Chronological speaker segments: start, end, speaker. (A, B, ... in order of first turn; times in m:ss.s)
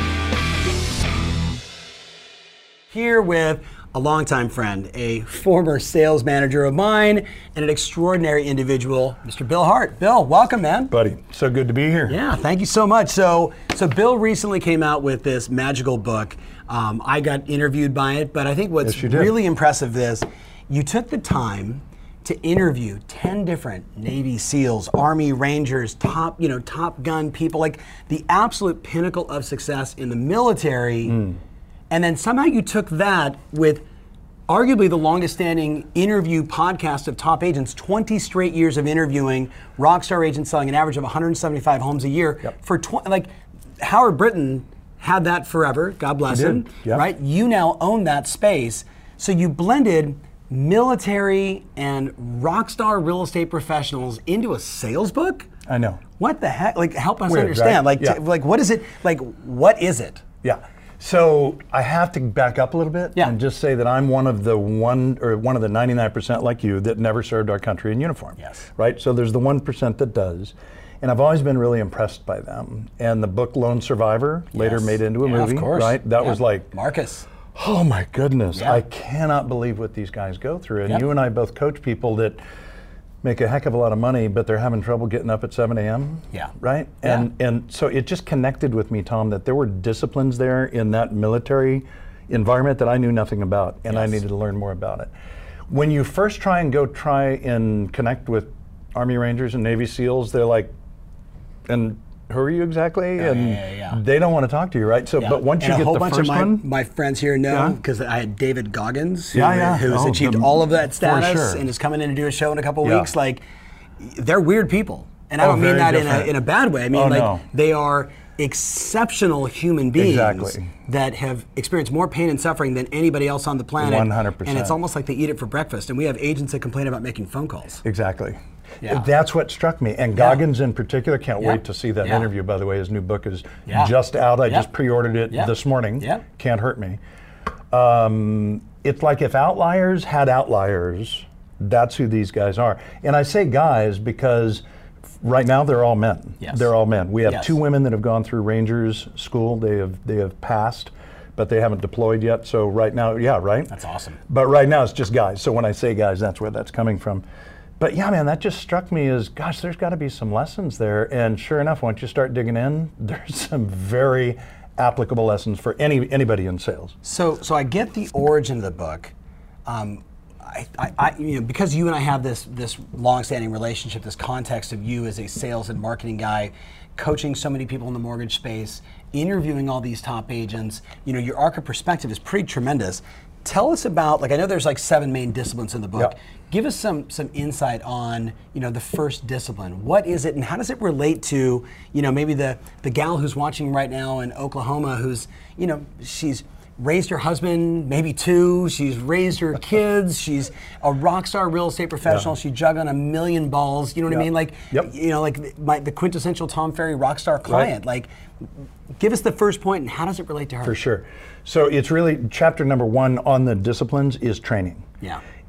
0:02.9-0:10.9 A
0:10.9-0:12.2 B
0:12.1-0:31.2 A
0:18.8-0:19.3 B
0:31.1-0:31.4 B
0:31.9-0:33.8 A
0:34.5-0:43.3 A
0:43.8-0:55.5 A
0:46.3-0:47.0 B
0:55.7-0:56.0 B
0:56.2-1:00.2 A
0:57.3-0:58.2 B
1:00.4-1:16.7 B
1:08.4-1:08.6 A
1:14.5-1:17.3 A
1:17.5-1:22.4 B
1:18.5-1:18.8 A
1:23.2-1:35.1 B
1:33.9-1:34.2 A
1:35.7-1:40.7 B
1:41.7-1:46.6 B
1:43.2-1:44.0 A
1:45.2-1:53.4 A
1:47.5-1:47.8 B
1:49.3-1:51.6 B
1:52.8-1:53.1 B
1:54.0-2:07.8 A
1:55.4-1:56.3 B
1:56.9-1:57.4 B
2:00.0-2:00.7 B
2:03.8-2:04.8 B
2:07.8-2:17.0 B
2:10.2-2:10.4 A
2:11.4-2:12.3 A
2:13.7-2:13.9 A
2:15.3-2:16.2 A
2:17.7-2:24.6 B
2:25.2-2:33.7 B
2:27.2-2:27.5 A
2:33.7-2:34.2 A
2:34.3-2:37.2 B
2:37.8-2:46.9 B
2:47.0-2:49.1 A
2:49.6-3:28.1 A
3:24.1-3:24.9 B
3:29.0-3:30.8 A
3:30.6-3:34.8 B